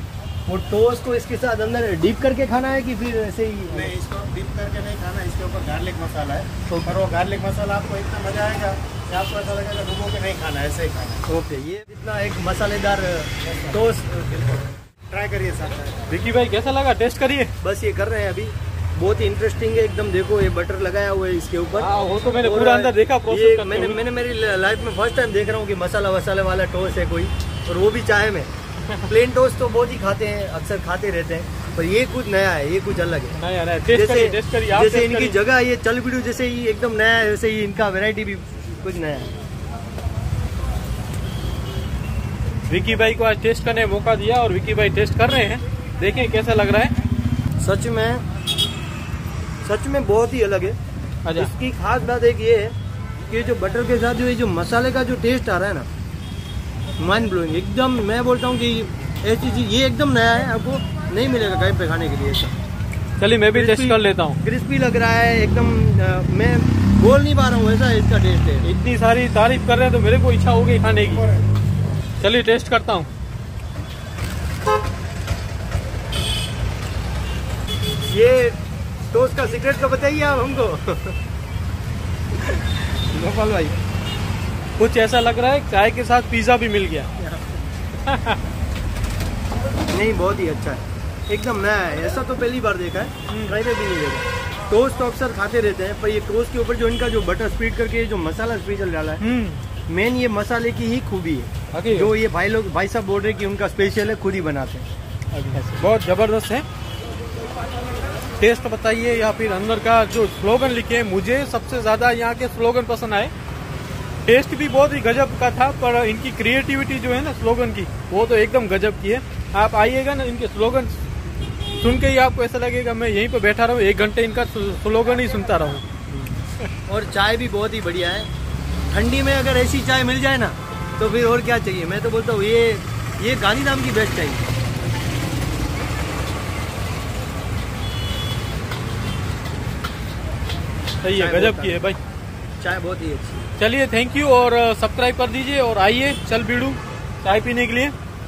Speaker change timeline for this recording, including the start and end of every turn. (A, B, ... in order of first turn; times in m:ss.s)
0:00.5-0:03.9 A
0:03.7-0:11.2 B
0:11.3-0:14.2 A
0:13.4-0:16.1 B
0:16.1-0:17.5 C
0:17.6-0:21.9 A
0:21.8-0:24.0 C
0:22.4-0:28.5 A
0:29.1-0:33.4 A
0:33.3-0:35.4 C
0:33.9-0:39.3 A
0:42.7-0:46.9 C
0:47.6-0:48.2 A
0:49.6-0:50.7 A
0:51.2-0:51.5 C
0:51.4-0:52.6 A
0:53.3-0:55.8 A
0:57.0-1:02.4 A
1:03.2-1:04.4 C
1:03.5-1:08.6 A
1:08.6-1:11.2 C
1:12.2-1:13.1 C
1:18.2-1:18.5 A
1:19.1-1:21.0 A
1:23.2-1:23.7 A
1:24.8-1:27.1 C
1:27.9-1:28.4 C
1:30.0-1:30.8 A
1:31.3-1:39.2 A
1:33.3-1:33.6 C
1:39.2-1:39.6 C
1:39.9-1:44.6 A
1:41.7-1:42.1 C
1:45.3-1:46.6 C
1:48.4-1:53.3 C
1:54.2-2:01.0 C
2:01.8-2:06.7 C
2:06.9-2:08.2 A
2:08.9-2:14.4 A
2:21.0-2:22.0 C
2:21.2-2:21.8 A
2:22.6-2:23.4 A
2:23.6-2:27.9 C